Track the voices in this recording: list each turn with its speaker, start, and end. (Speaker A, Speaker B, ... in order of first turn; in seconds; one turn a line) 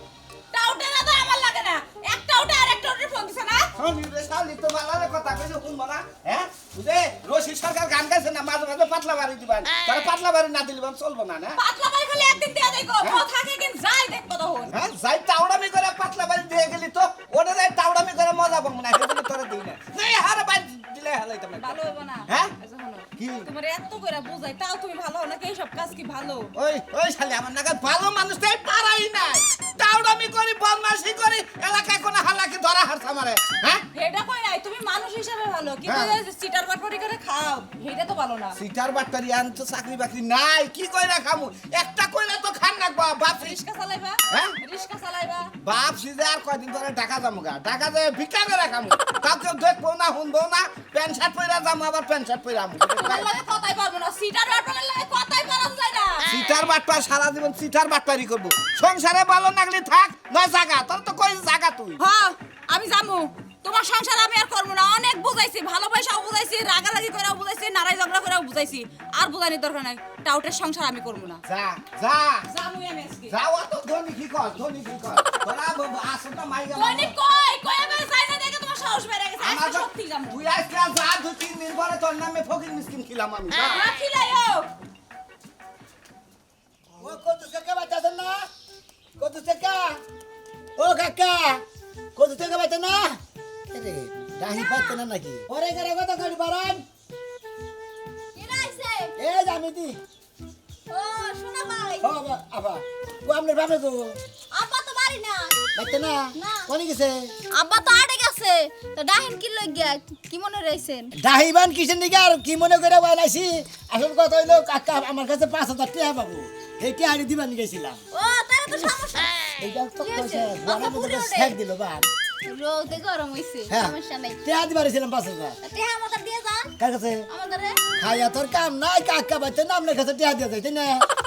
Speaker A: 0.5-3.7
Speaker B: 3.8-11.6
Speaker A: 11.6-14.7
Speaker B: 14.7-22.5
Speaker A: 21.6-26.5
Speaker B: 23.1-23.5
Speaker B: 26.5-33.8
Speaker A: 33.9-38.6
Speaker B: 35.8-36.1
Speaker B: 38.5-43.6
Speaker A: 43.3-45.5
Speaker B: 44.3-44.5
Speaker B: 45.6-53.3
Speaker A: 53.0-56.3
Speaker B: 56.3-62.0
Speaker A: 62.0-71.4
Speaker B: 71.5-72.5
Speaker A: 72.5-73.4
Speaker B: 73.3-77.1
Speaker A: 76.7-80.4
Speaker B: 79.4-83.8
Speaker A: 83.7-84.7
Speaker C: 87.0-88.5
Speaker C: 89.2-90.0
Speaker C: 90.8-91.6
Speaker C: 92.2-93.2
Speaker C: 93.7-96.8
Speaker D: 94.5-95.0
Speaker D: 98.3-99.1
Speaker C: 99.2-100.0
Speaker D: 100.9-102.1
Speaker C: 102.0-104.2
Speaker D: 104.5-105.6
Speaker C: 105.8-107.3
Speaker D: 106.3-106.7
Speaker D: 107.5-111.1
Speaker C: 111.2-118.0
Speaker D: 118.1-119.3
Speaker C: 119.6-122.1
Speaker D: 120.0-121.5
Speaker D: 122.4-124.4
Speaker C: 123.7-125.6
Speaker D: 125.6-126.7
Speaker C: 126.8-127.2
Speaker D: 127.3-127.8
Speaker C: 128.0-131.1